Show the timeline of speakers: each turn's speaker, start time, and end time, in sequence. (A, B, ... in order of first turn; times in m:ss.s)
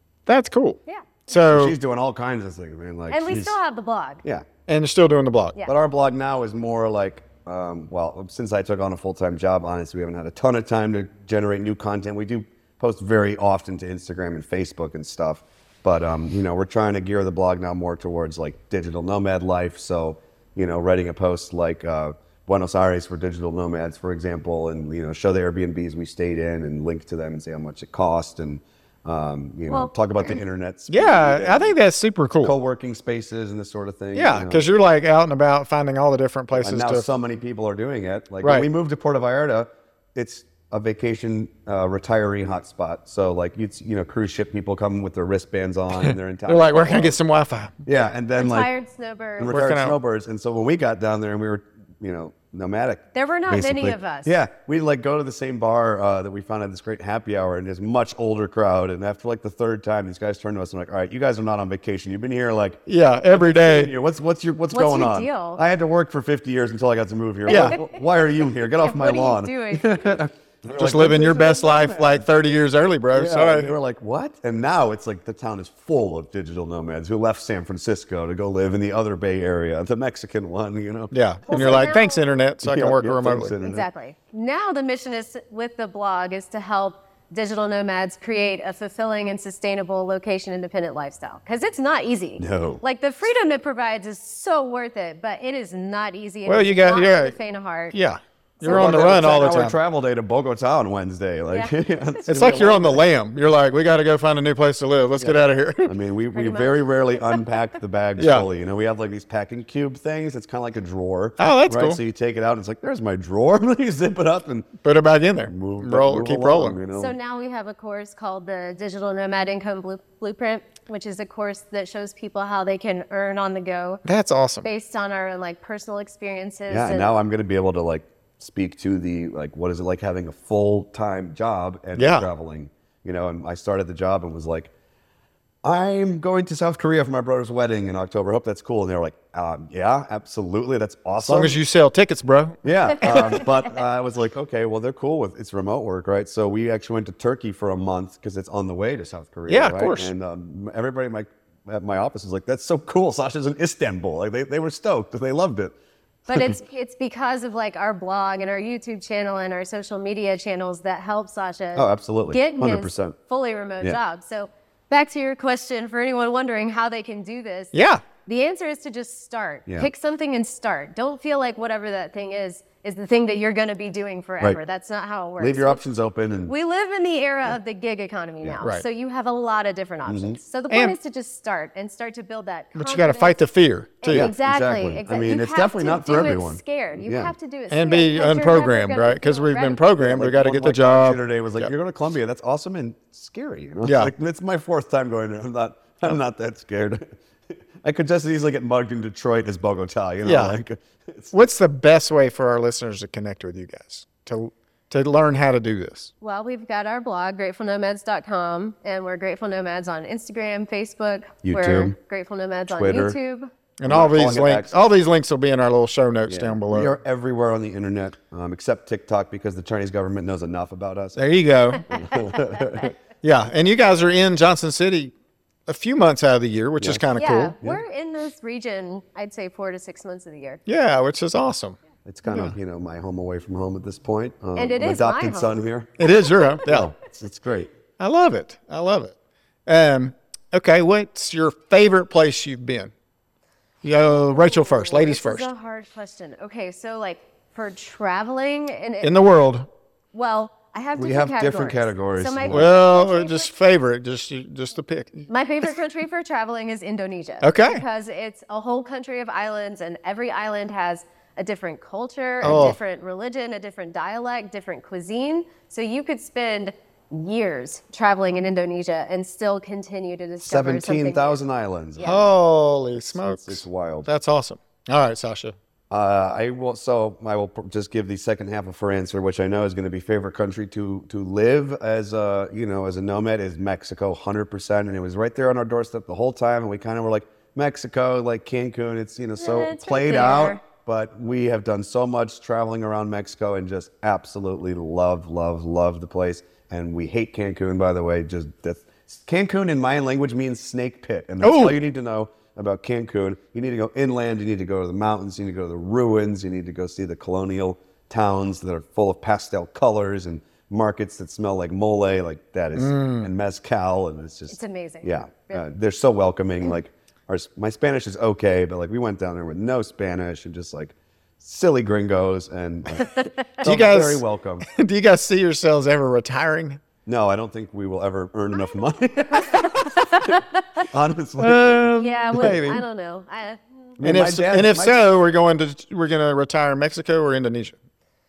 0:00.2-0:01.7 A
0:00.8-0:01.2 B
0:01.5-0:03.6 C
0:03.1-0:04.2 B
0:04.7-0:05.6 A
0:05.6-0:31.8 C
0:29.7-0:30.4 B
0:30.9-0:32.6 A
0:32.4-0:34.6 C
0:34.1-0:37.1 A
0:36.5-0:47.2 C
0:38.4-0:38.7 A
0:46.0-0:47.8 A
0:47.8-0:48.7 C
0:48.4-0:49.6 B
0:49.4-1:12.2 C
0:49.5-0:50.0 A
0:53.1-0:54.3 B
1:02.9-1:03.9 A
1:04.7-1:05.6 B
1:07.5-1:07.8 A
1:07.5-1:08.0 B
1:08.7-1:10.2 B
1:10.7-1:13.7 A
1:13.1-1:21.9 C
1:21.1-1:23.5 A
1:21.5-1:22.2 B
1:22.6-1:23.9 C
1:23.6-1:38.0 B
1:32.4-1:32.8 C
1:36.5-1:37.3 A
1:37.9-1:39.8 A
1:38.6-1:39.0 B
1:38.6-1:43.0 C
1:42.2-1:45.9 A
1:42.3-1:42.6 B
1:45.2-1:54.7 C
1:46.3-1:47.4 B
1:48.2-1:48.4 A
1:51.4-1:52.0 A
1:54.8-1:56.8 A
1:55.5-1:57.1 C
1:56.9-2:04.0 B
2:04.0-2:04.7 A
2:04.6-2:07.1 B
2:06.7-2:14.7 C
2:12.0-2:12.3 A
2:15.6-2:21.6 C
2:21.2-2:23.4 A
2:22.6-2:35.7 C
2:29.5-2:30.1 A
2:36.3-2:55.8 B
2:36.3-2:36.6 C
2:41.7-2:43.2 C
2:47.7-2:48.0 A
2:55.4-2:56.5 C
2:56.4-3:03.4 B
3:00.1-3:00.4 C
3:00.7-3:00.9 A
3:02.7-3:04.3 A
3:04.0-3:09.8 B
3:04.1-3:07.3 C
3:07.7-3:11.7 A
3:10.0-3:17.0 C
3:13.8-3:14.1 A
3:17.8-3:21.4 C
3:20.2-3:20.6 A
3:21.3-3:26.1 A
3:26.2-3:33.5 B
3:31.4-3:32.0 C
3:32.7-3:33.2 C
3:33.8-3:36.9 A
3:33.9-3:34.8 C
3:36.3-3:41.3 C
3:41.2-3:41.9 A
3:41.8-3:42.9 C
3:42.1-3:42.7 B
3:43.2-3:45.1 A
3:45.7-3:47.5 A
3:46.8-3:47.0 C
3:47.2-3:50.6 B
3:50.7-3:52.6 A
3:52.0-3:56.0 C
3:54.6-3:55.6 B
3:56.0-3:56.9 A
3:56.6-3:57.7 C
3:58.0-3:59.1 A
3:59.6-4:02.9 A
4:03.8-4:05.5 A
4:04.1-4:09.2 B
4:09.0-4:09.7 A
4:10.1-4:13.5 B
4:11.0-4:12.7 C
4:12.5-4:15.3 A
4:15.3-4:31.4 B
4:17.4-4:17.8 A
4:22.4-4:22.8 C
4:22.4-4:22.8 A
4:30.4-4:32.3 C
4:32.0-4:35.5 A
4:32.9-4:34.1 C
4:35.9-5:24.6 C
4:49.4-4:50.6 B
5:01.4-5:01.8 A
5:12.8-5:13.3 A
5:14.5-5:15.6 B
5:23.1-5:23.5 B
5:23.6-5:26.8 A
5:27.0-5:32.8 C
5:29.5-5:30.8 B
5:31.4-5:32.6 A
5:32.0-5:33.6 B
5:34.0-5:35.0 C
5:34.0-5:37.8 A